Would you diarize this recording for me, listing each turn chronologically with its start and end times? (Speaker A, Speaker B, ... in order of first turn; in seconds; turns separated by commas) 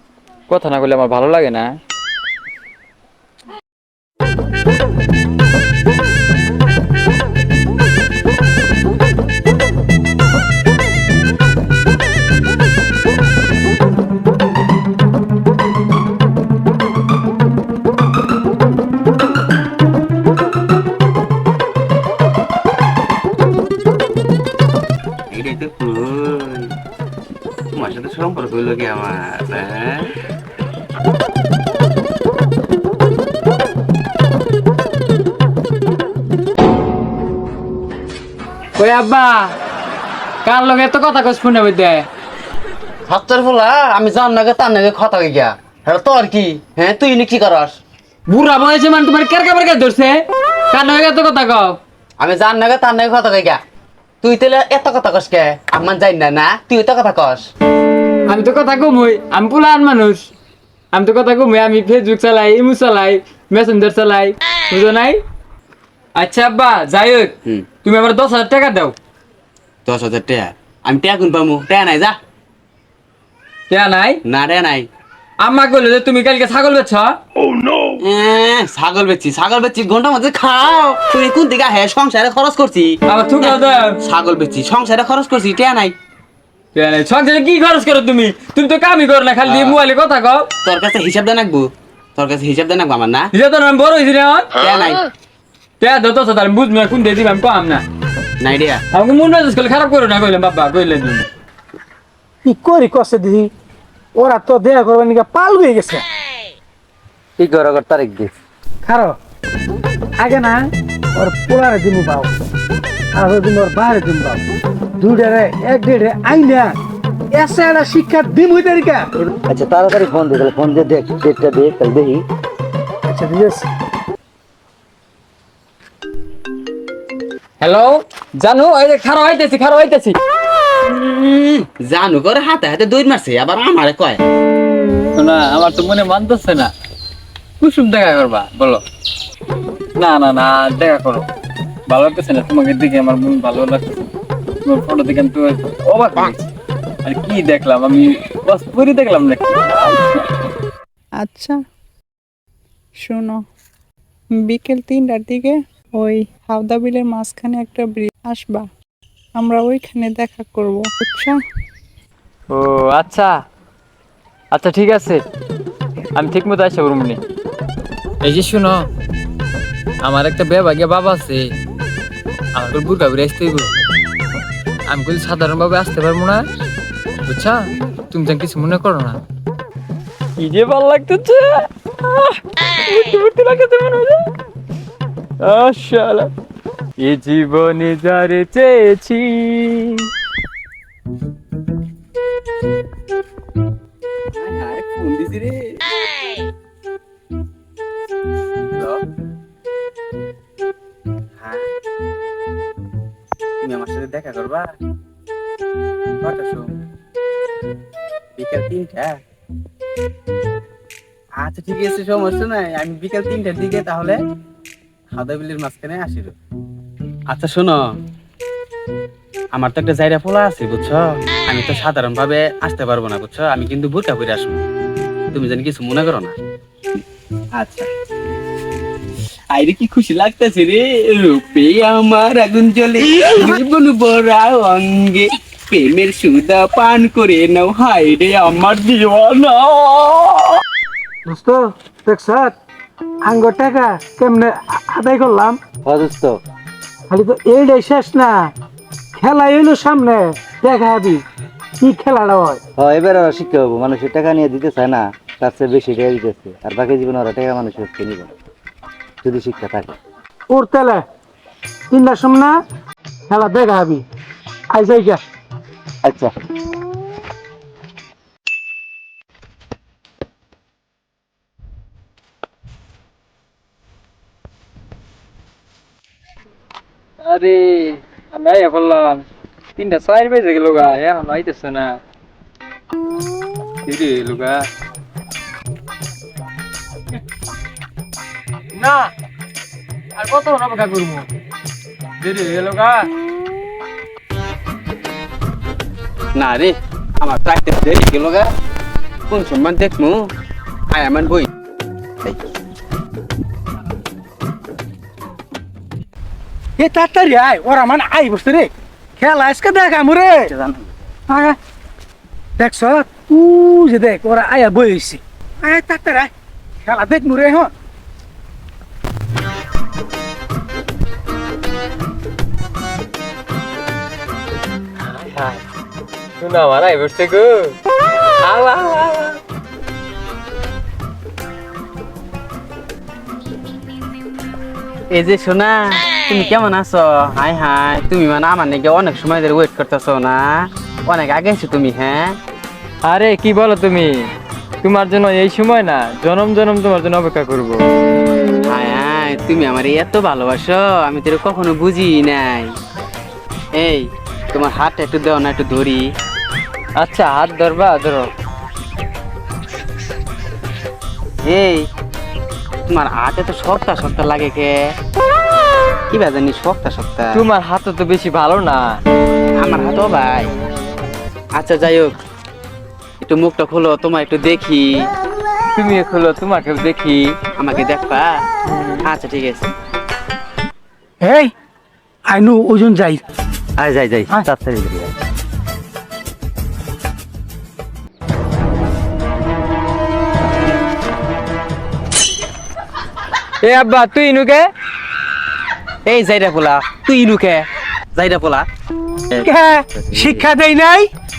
Speaker A: 0.5-1.8, Speaker B: 25.3-26.7, Speaker B: 27.8-30.1, Speaker A: 38.8-39.5, Speaker A: 40.5-42.0, Speaker B: 43.1-47.8, Speaker A: 48.3-50.2, Speaker A: 50.7-51.8, Speaker B: 52.2-53.6, Speaker B: 54.2-57.5, Speaker A: 58.3-60.3, Speaker A: 60.9-65.2, Speaker A: 66.2-67.3, Speaker A: 67.8-69.0, Speaker B: 69.9-72.2, Speaker A: 73.7-74.2, Speaker B: 74.3-74.9, Speaker A: 75.4-77.1, Speaker B: 78.0-86.0, Speaker A: 83.1-84.0, Speaker A: 86.8-90.5, Speaker B: 89.5-89.8, Speaker B: 90.7-93.3, Speaker A: 93.3-94.5, Speaker B: 94.6-95.0, Speaker A: 95.8-97.8, Speaker B: 98.4-98.8, Speaker A: 98.9-101.3, Speaker C: 102.4-103.5, Speaker C: 104.2-106.0, Speaker D: 107.4-108.3, Speaker C: 108.8-109.2, Speaker C: 110.2-110.6, Speaker C: 111.2-112.3, Speaker C: 113.1-114.4, Speaker C: 115.0-116.8, Speaker C: 117.3-119.1, Speaker D: 119.2-122.2, Speaker C: 123.1-123.7, Speaker A: 127.6-130.2, Speaker B: 130.8-134.2, Speaker A: 135.2-136.7, Speaker A: 137.6-138.8, Speaker A: 140.0-141.3, Speaker A: 141.9-144.1, Speaker A: 144.6-146.5, Speaker A: 147.1-150.1, Speaker E: 151.2-151.6, Speaker E: 153.0-153.4, Speaker E: 154.4-158.7, Speaker E: 159.4-161.4, Speaker A: 162.5-163.3, Speaker A: 164.5-165.2, Speaker A: 166.2-167.2, Speaker A: 168.2-168.9, Speaker A: 170.0-171.4, Speaker A: 172.6-173.7, Speaker A: 174.9-176.5, Speaker A: 177.3-179.2, Speaker A: 180.4-184.3, Speaker A: 185.4-186.3, Speaker A: 187.0-190.1, Speaker B: 194.3-195.6, Speaker B: 198.7-199.0, Speaker B: 201.4-201.7, Speaker B: 203.6-204.7, Speaker B: 206.2-206.7, Speaker B: 208.4-209.2, Speaker B: 211.4-214.2, Speaker B: 215.1-216.3, Speaker B: 217.3-217.8, Speaker B: 219.6-224.6, Speaker B: 225.3-226.3, Speaker B: 227.6-227.9, Speaker B: 229.5-240.6, Speaker C: 241.3-242.6, Speaker C: 243.2-245.6, Speaker D: 245.9-246.4, Speaker C: 247.1-248.5, Speaker C: 249.2-251.2, Speaker C: 251.8-252.6, Speaker D: 252.8-258.3, Speaker D: 259.2-260.0, Speaker C: 260.5-261.0, Speaker C: 261.9-262.6, Speaker C: 263.3-264.0, Speaker C: 264.7-265.2, Speaker D: 266.0-266.3, Speaker A: 277.2-279.2, Speaker A: 279.8-282.0, Speaker A: 283.9-284.6, Speaker A: 288.8-289.1, Speaker A: 290.2-291.3, Speaker A: 292.2-293.1, Speaker B: 296.4-298.5, Speaker B: 299.3-300.2, Speaker B: 300.9-301.5, Speaker C: 306.8-310.5, Speaker D: 310.4-310.9, Speaker C: 311.3-311.6, Speaker C: 312.6-316.3, Speaker C: 316.8-317.7, Speaker A: 325.0-325.6, Speaker A: 326.4-327.8, Speaker A: 328.4-329.4, Speaker B: 335.1-342.4, Speaker A: 343.1-344.1, Speaker A: 344.8-347.8, Speaker B: 348.7-352.7, Speaker B: 353.8-356.0, Speaker A: 357.0-358.3, Speaker B: 361.4-361.9, Speaker B: 362.9-364.7, Speaker B: 366.1-367.4, Speaker A: 367.3-369.0, Speaker B: 369.6-370.5, Speaker B: 371.6-372.1, Speaker B: 373.2-374.9, Speaker A: 375.8-377.2, Speaker B: 377.6-378.3, Speaker B: 379.1-379.7, Speaker C: 381.2-381.5, Speaker C: 382.3-383.2, Speaker D: 383.8-385.1, Speaker A: 393.6-394.7, Speaker B: 396.1-398.7, Speaker D: 399.3-400.5, Speaker C: 399.4-401.1